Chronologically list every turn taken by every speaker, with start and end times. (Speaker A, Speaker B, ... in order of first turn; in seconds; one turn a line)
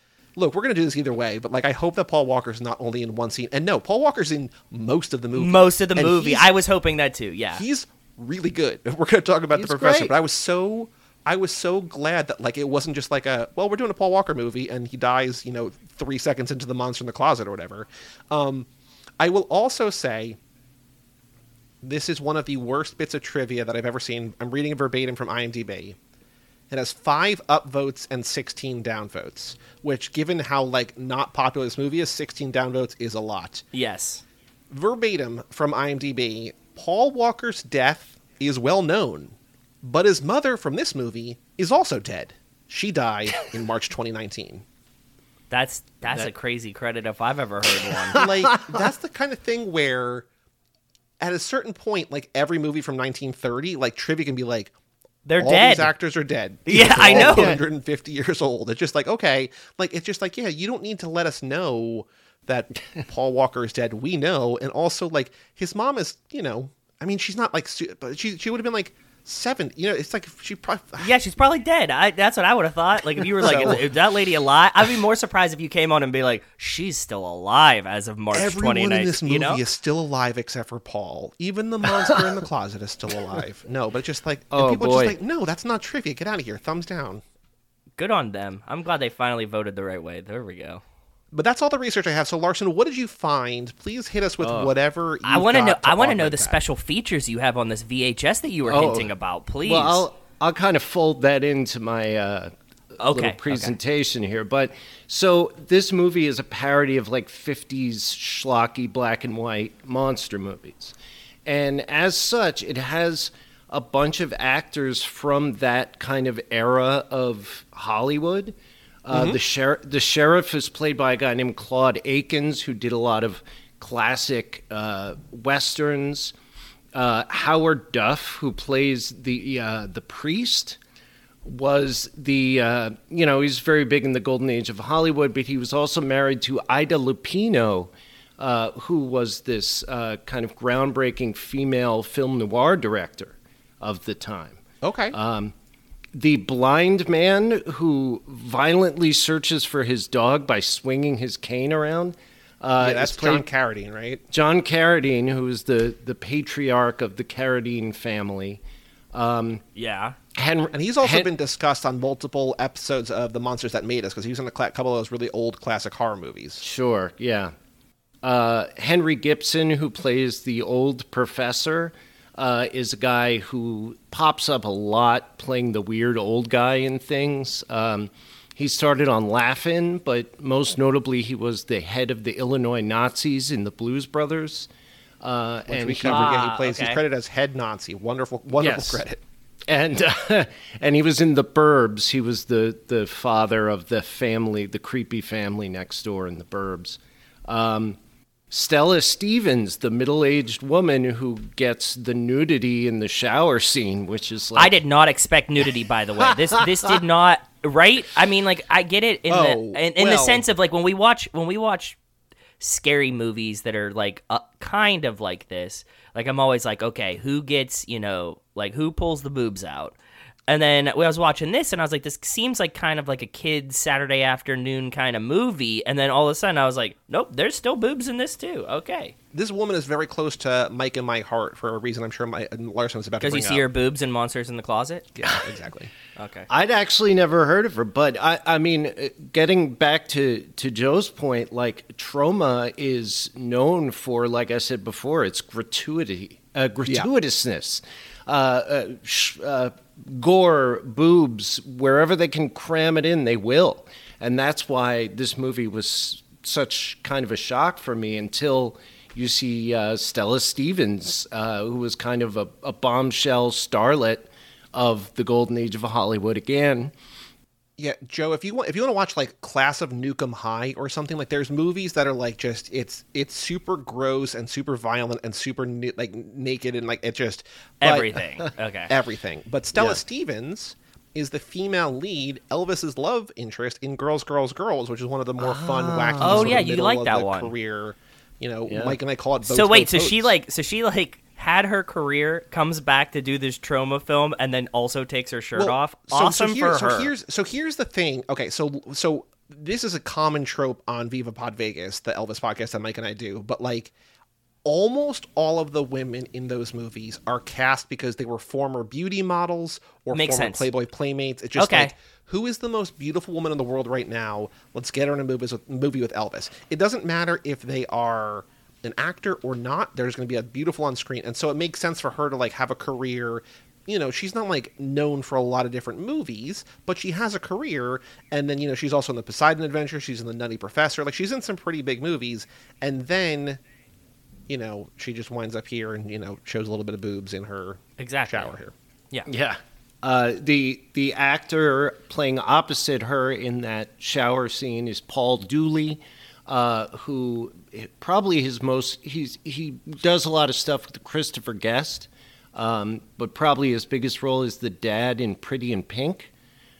Speaker A: 0.3-6.5
Speaker B: 5.3-7.6
Speaker A: 7.5-18.7
Speaker C: 9.5-10.1
Speaker A: 19.2-20.4
Speaker A: 21.8-26.0
Speaker A: 26.7-33.6
Speaker B: 33.7-34.2
Speaker A: 34.7-44.6
Speaker B: 45.5-48.2
Speaker C: 48.1-48.8
Speaker A: 48.1-50.3
Speaker A: 51.2-54.7
Speaker B: 55.2-55.9
Speaker A: 55.4-71.1
Speaker B: 56.6-57.6
Speaker C: 56.7-57.6
Speaker B: 71.0-79.6
Speaker A: 73.4-73.8
Speaker A: 78.3-87.2
Speaker C: 84.5-85.2
Speaker B: 88.0-90.8
Speaker A: 91.3-96.6
Speaker C: 94.4-94.7
Speaker B: 95.2-100.0
Speaker C: 98.7-99.1
Speaker C: 99.6-126.3
Speaker B: 103.0-103.7
Speaker A: 119.1-119.4
Speaker C: 126.9-130.8
Speaker C: 131.4-145.5
Speaker A: 144.8-145.2
Speaker C: 146.1-153.4
Speaker A: 152.8-154.2
Speaker C: 154.3-158.6
Speaker C: 159.1-159.6
Speaker B: 159.8-160.2
Speaker C: 160.3-161.3
Speaker A: 160.7-166.6
Speaker C: 166.6-167.5
Speaker C: 168.2-184.7
Speaker C: 185.2-186.3
Speaker A: 185.7-189.2
Speaker B: 186.0-187.0
Speaker C: 188.5-189.0
Speaker C: 189.7-198.0
Speaker C: 198.5-204.7
Speaker B: 204.6-212.0
Speaker C: 206.2-206.9
Speaker A: 209.3-210.4
Speaker B: 212.6-219.9
Speaker B: 220.5-229.1
Speaker A: 229.3-233.6
Speaker B: 233.2-235.1
Speaker A: 235.2-235.9
Speaker B: 236.2-236.5
Speaker C: 236.5-266.9
Speaker A: 267.8-278.1
Speaker B: 277.8-278.9
Speaker A: 278.9-290.3
Speaker C: 285.4-286.6
Speaker B: 286.2-287.5
Speaker C: 288.7-289.0
Speaker B: 289.4-297.1
Speaker A: 295.6-303.9
Speaker A: 304.6-333.6
Speaker B: 310.1-310.7
Speaker B: 311.6-311.9
Speaker A: 334.5-338.7
Speaker B: 338.0-338.5
Speaker C: 339.2-356.3